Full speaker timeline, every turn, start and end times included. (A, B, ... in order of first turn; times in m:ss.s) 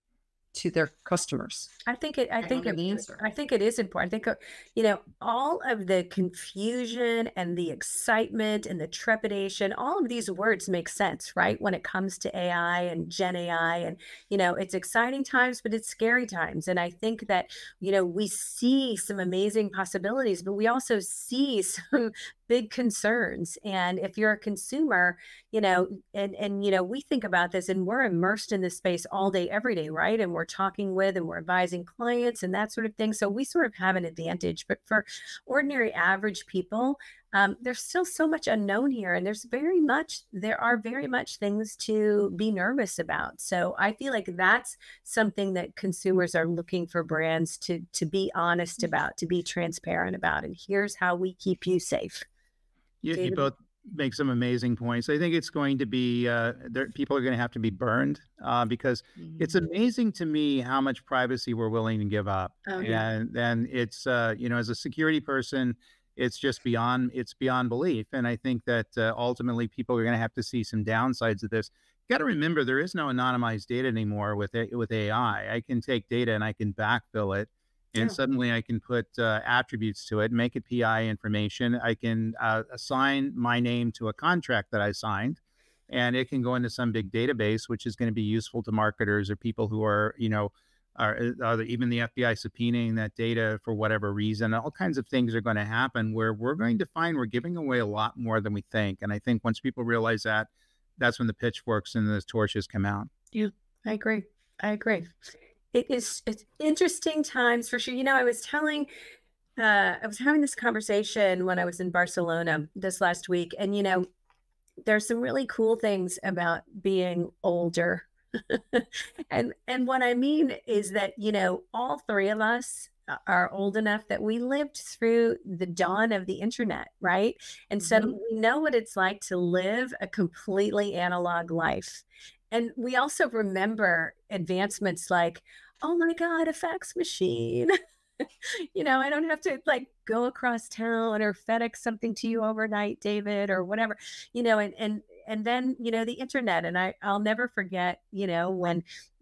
0:00.5-0:01.7 A
0:01.9-0:52.3 B
0:02.4-0:03.2 A
0:53.0-1:43.1 C
0:53.2-0:53.5 B
1:02.7-1:03.0 B
1:43.3-1:45.1 B
1:45.7-1:48.9 B
1:49.6-1:54.0 B
1:54.8-2:17.7 B
2:07.8-2:08.1 A
2:18.4-2:28.8 B